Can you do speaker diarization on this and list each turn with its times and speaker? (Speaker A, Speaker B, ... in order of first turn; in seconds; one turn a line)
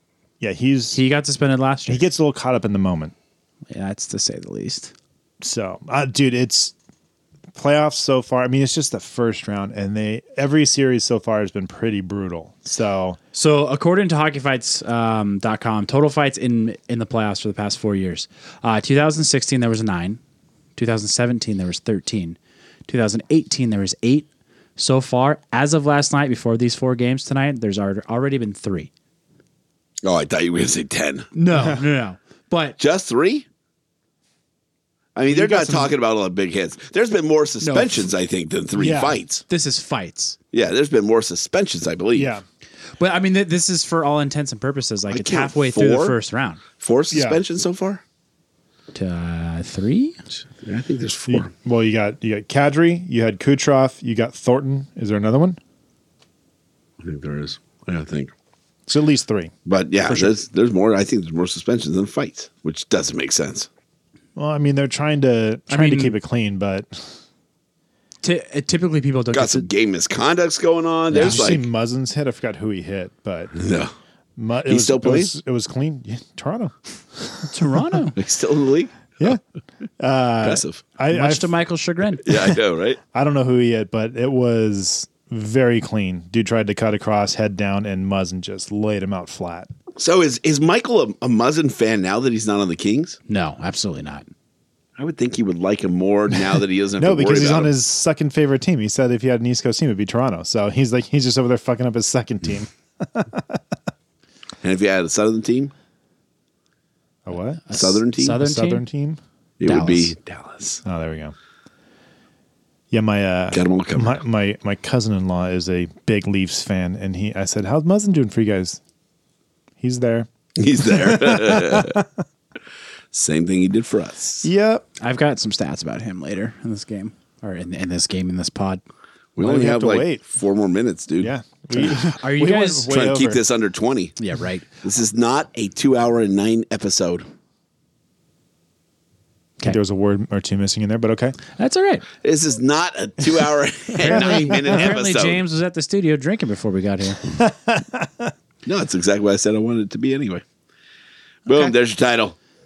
Speaker A: 0.4-1.0
Speaker B: 0.9-2.1
Speaker A: 1.9-3.1
Speaker B: 3.7-4.9
Speaker A: 5.4-6.7
Speaker A: 7.5-13.2
Speaker B: 13.3-20.2
Speaker B: 20.8-28.9
Speaker C: 30.0-31.3
Speaker B: 31.3-32.8
Speaker C: 32.8-33.5
Speaker C: 35.2-39.5
Speaker A: 35.3-35.9
Speaker B: 37.6-38.1
Speaker A: 38.7-39.2
Speaker B: 39.5-40.4
Speaker C: 40.5-42.3
Speaker A: 42.1-42.4
Speaker B: 43.0-46.6
Speaker C: 45.1-46.2
Speaker C: 46.8-48.0
Speaker A: 47.1-47.4
Speaker B: 48.9-50.2
Speaker C: 50.6-51.5
Speaker A: 51.3-55.6
Speaker C: 57.0-58.3
Speaker A: 58.9-59.5
Speaker C: 59.7-63.7
Speaker A: 60.1-60.4
Speaker A: 64.4-67.1
Speaker B: 65.7-66.2
Speaker B: 68.2-69.7
Speaker C: 69.3-71.7
Speaker B: 71.1-71.4
Speaker A: 71.1-73.5
Speaker C: 73.5-73.9
Speaker A: 74.4-78.0
Speaker C: 74.7-75.3
Speaker B: 77.5-78.2
Speaker C: 78.2-79.2
Speaker A: 80.0-81.5
Speaker C: 80.4-80.8
Speaker B: 81.1-82.4
Speaker C: 82.2-83.0
Speaker A: 83.1-89.7
Speaker C: 90.0-93.2
Speaker B: 93.3-94.3
Speaker C: 95.0-97.7
Speaker A: 97.0-103.6
Speaker C: 104.6-105.7
Speaker A: 107.2-107.7
Speaker B: 107.7-108.9
Speaker C: 107.7-108.4
Speaker A: 108.3-109.2
Speaker C: 109.6-110.8
Speaker B: 109.7-110.1
Speaker A: 110.8-111.3
Speaker A: 112.9-118.8
Speaker C: 113.5-114.2
Speaker A: 119.8-120.3
Speaker C: 120.6-122.0
Speaker A: 120.8-122.1
Speaker C: 123.1-124.5
Speaker A: 124.4-124.8
Speaker B: 125.0-128.8
Speaker C: 129.4-131.3
Speaker A: 129.4-130.2
Speaker A: 131.2-133.4
Speaker B: 131.8-132.9
Speaker C: 132.9-134.2
Speaker B: 134.2-134.7
Speaker C: 134.8-137.2
Speaker A: 139.6-141.4
Speaker B: 141.6-142.1
Speaker C: 142.2-145.4
Speaker B: 144.0-147.2
Speaker A: 144.0-144.9
Speaker A: 147.3-148.3
Speaker C: 148.7-150.4
Speaker C: 151.5-152.4